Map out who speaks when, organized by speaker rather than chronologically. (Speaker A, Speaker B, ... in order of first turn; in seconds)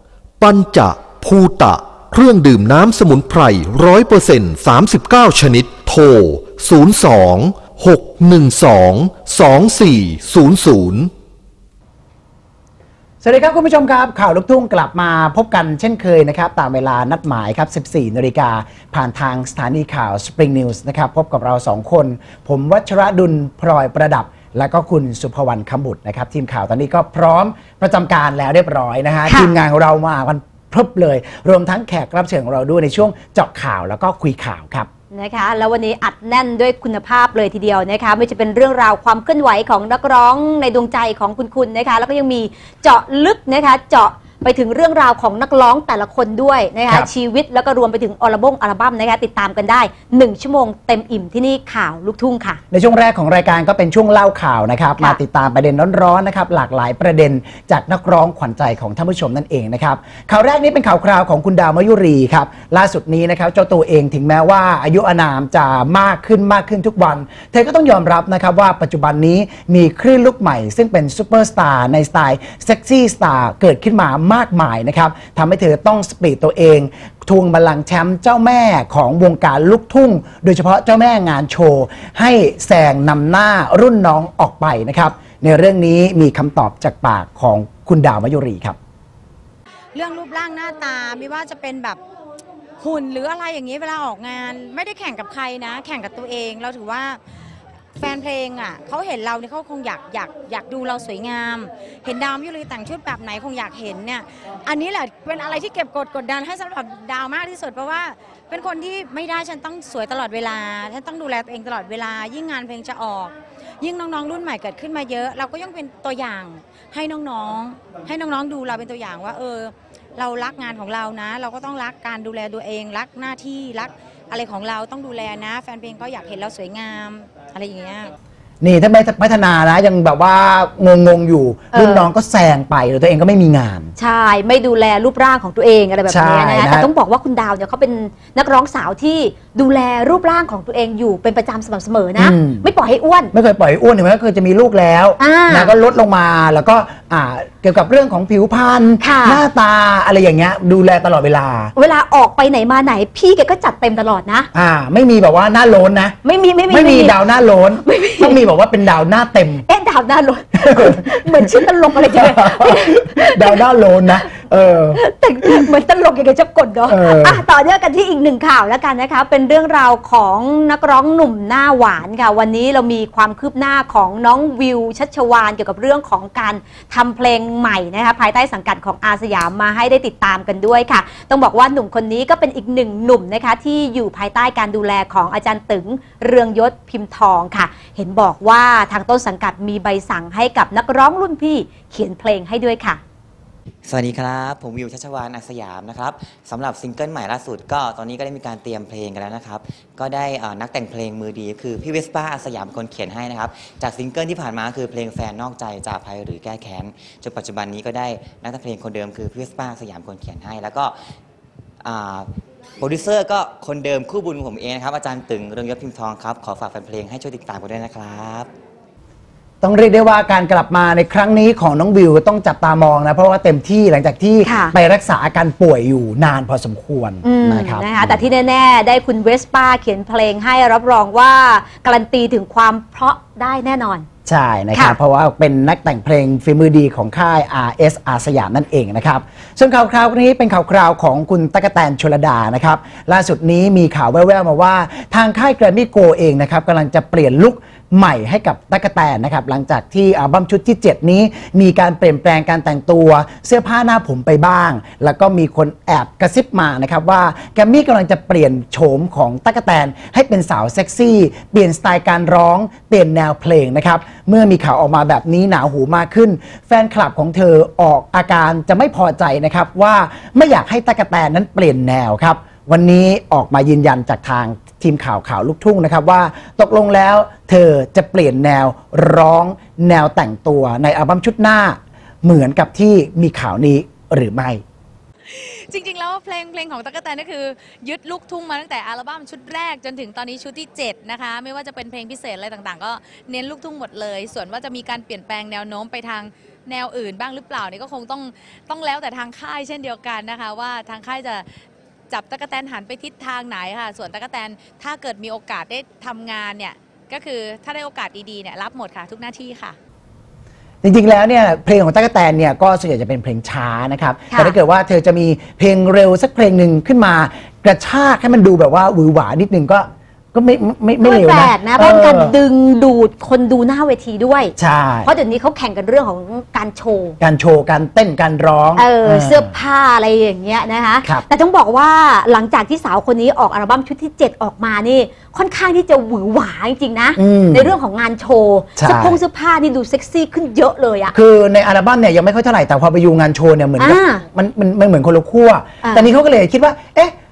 Speaker A: 0.4-11.1
Speaker B: 13.2-34.9, 52.7-88.8, 128.6-133.9, 136.1-136.9, 142.2-142.7, 143.3-151.7, 154.5-156.2, 156.7-159.7, 160.6-165.0, 166.9-167.4, 219.6-228.2, 234.3-284.6, 310.8-322.4, 324.6-325.1, 327.2-329.5, 337.2-337.7, 338.8-339.2, 341.1-347.1
Speaker C: 29.3-29.6, 35.1-52.6, 131.7-132.1, 134.0-143.3, 145.2-145.7, 149.0-149.4, 151.8-154.5, 156.2-157.2, 157.8-158.4, 159.7-163.6, 164.9-193.0, 224.4-224.8, 227.2-234.1, 321.0-327.2, 328.8-341.1, 343.8-344.2, 345.8-346.1
Speaker D: 89.9-92.0, 92.8-97.2, 98.0-128.1
Speaker E: 193.9-211.0, 211.8-212.3, 212.8-218.5
Speaker F: 285.4-301.5, 302.1-309.8